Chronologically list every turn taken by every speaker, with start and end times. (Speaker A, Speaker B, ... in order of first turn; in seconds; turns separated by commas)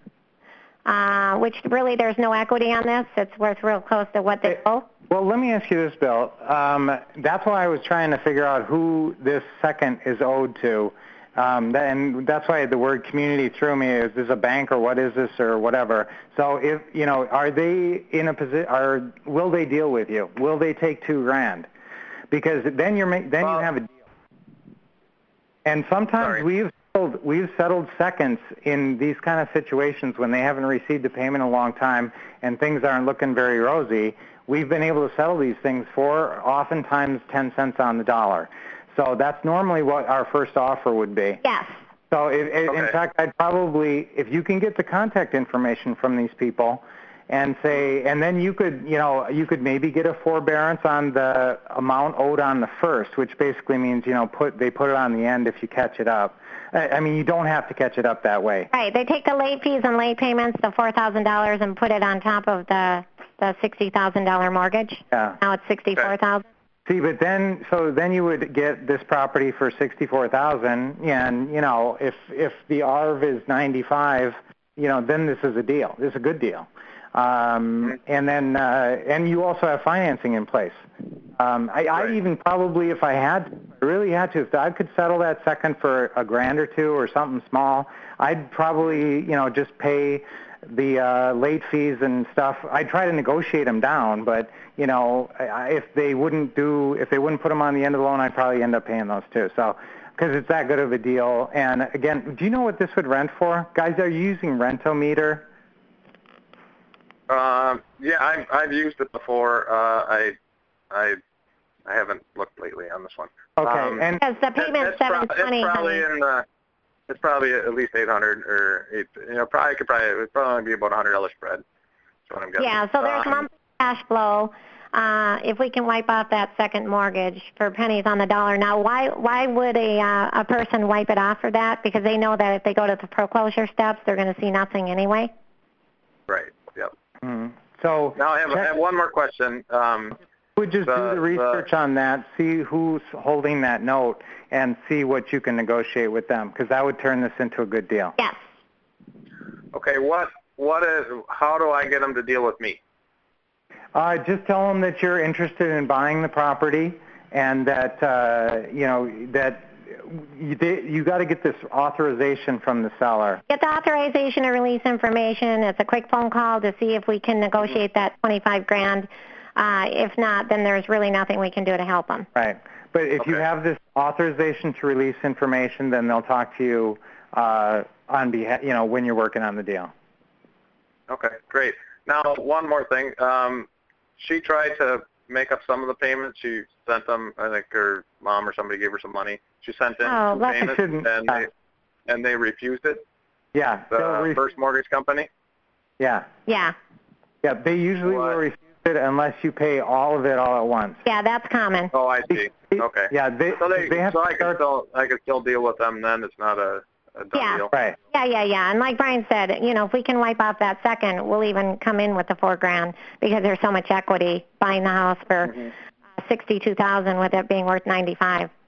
Speaker A: 0.8-4.9, Speaker B: 5.1-21.7, Speaker B: 22.3-23.9, Speaker B: 25.6-41.4, Speaker A: 41.4-41.8, Speaker B: 42.1-58.7, Speaker A: 58.7-66.4, Speaker B: 65.1-65.4, Speaker B: 66.8-80.8, Speaker B: 81.4-105.5, Speaker C: 107.3-110.4, Speaker C: 110.9-111.2, Speaker C: 111.8-116.4, Speaker B: 113.6-114.2, Speaker A: 114.2-116.0, Speaker C: 117.1-121.6, Speaker C: 122.3-123.5, Speaker A: 122.6-135.3, Speaker C: 136.3-136.9, Speaker B: 137.2-138.2, Speaker C: 138.2-140.2, Speaker B: 140.6-148.2, Speaker C: 140.8-141.6, Speaker C: 149.7-152.8, Speaker B: 153.9-163.4, Speaker A: 163.5-172.3, Speaker B: 172.3-179.9, Speaker C: 181.1-183.7, Speaker C: 184.2-191.5, Speaker A: 190.0-190.7, Speaker B: 190.6-191.4, Speaker C: 192.1-193.0, Speaker B: 193.5-194.4, Speaker C: 193.9-195.3, Speaker B: 196.0-196.3, Speaker A: 196.5-196.7, Speaker B: 197.4-201.0, Speaker C: 198.1-198.4, Speaker A: 201.0-201.9, Speaker C: 201.9-207.7, Speaker B: 202.7-204.6, Speaker A: 207.3-215.6, Speaker B: 207.7-207.9, Speaker A: 216.2-218.5